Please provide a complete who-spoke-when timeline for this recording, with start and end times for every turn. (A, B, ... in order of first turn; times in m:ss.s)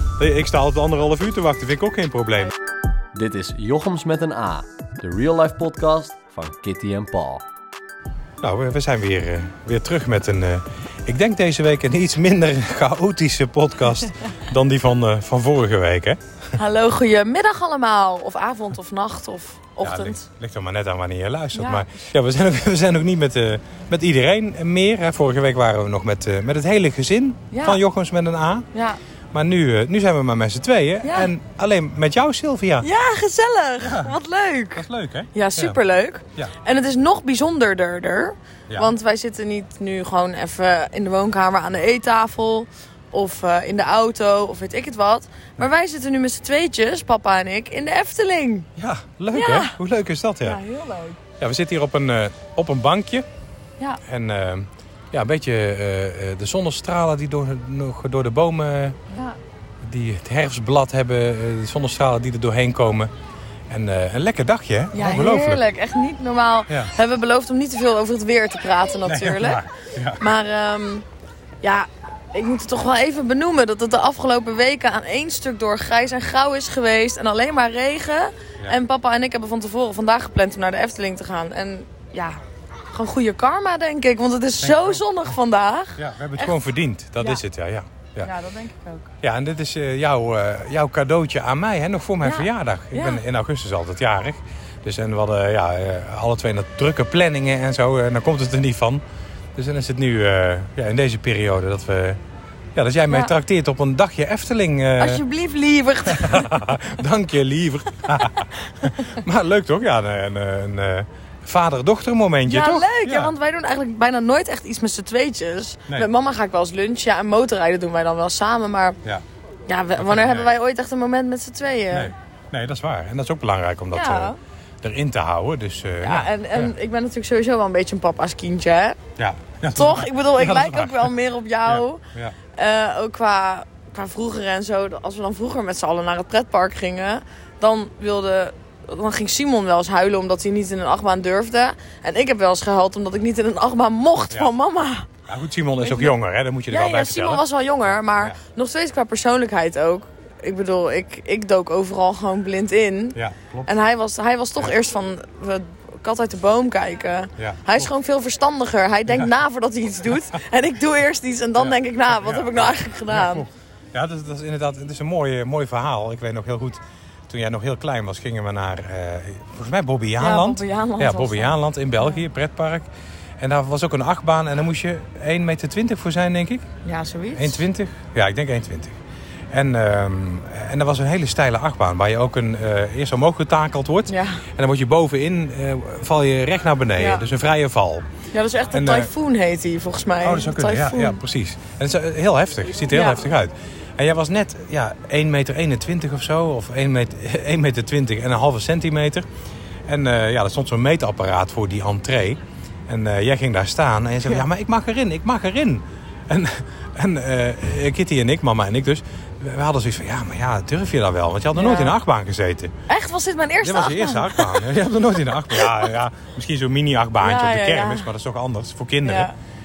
0:00.2-0:02.5 A
0:03.1-0:07.4 B
0:08.4-0:16.2 A
0:16.6-0:20.2 C
0:19.8-0:28.7 A
0:21.5-0:21.9 C
0:27.5-0:27.8 C
0:28.7-0:29.0 C
0:29.3-0:32.9 A
0:31.0-0:31.3 C
0:32.8-0:48.7 C
0:33.8-0:34.1 A
0:34.8-0:35.8 A
0:48.8-0:50.6 A
0:49.3-0:49.8 C
0:50.4-0:51.2 C
0:51.4-0:53.3 A
0:54.0-0:59.0 A
0:59.1-0:59.4 C
0:59.8-1:03.1 A
1:03.7-1:05.6 A
1:04.9-1:09.6 C
1:09.0-1:10.2 A
1:10.2-1:11.1 C
1:11.6-1:26.6 C
1:24.6-1:25.0 A
1:26.0-1:28.3 A
1:28.2-1:29.1 C
1:29.2-1:39.0 A
1:32.2-1:33.2 C
1:39.6-1:42.2 A
1:42.8-1:45.2 A
1:45.0-1:46.5 C
1:46.1-1:53.3 A
1:52.4-1:59.0 C
1:59.7-2:02.1 C
2:00.0-2:00.5 A
2:01.9-2:06.7 A
2:03.9-2:04.4 C
2:06.0-2:09.0 C
2:09.2-2:11.2 A
2:09.7-2:12.0 C
2:11.7-2:12.4 A
2:12.5-2:25.1 C
2:25.3-2:27.4 A
2:25.8-2:26.2 C
2:26.7-2:43.5 C
2:28.1-2:28.4 A
2:33.2-2:33.7 A
2:37.4-2:37.9 A
2:41.6-2:52.9 A
2:50.2-2:52.2 C
2:53.4-2:56.6 A
2:56.8-2:57.6 C
2:57.4-2:59.0 A
2:59.5-3:08.1 A
3:04.1-3:04.4 C
3:07.0-3:07.3 C
3:08.3-3:11.2 C
3:08.7-3:09.1 A
3:10.2-3:19.3 A
3:12.9-3:13.3 C
3:19.9-3:32.7 A
3:31.5-3:32.0 C
3:32.9-3:34.7 C
3:33.6-3:39.3 A
3:35.5-3:35.9 C
3:37.2-3:38.1 C
3:39.0-3:39.3 C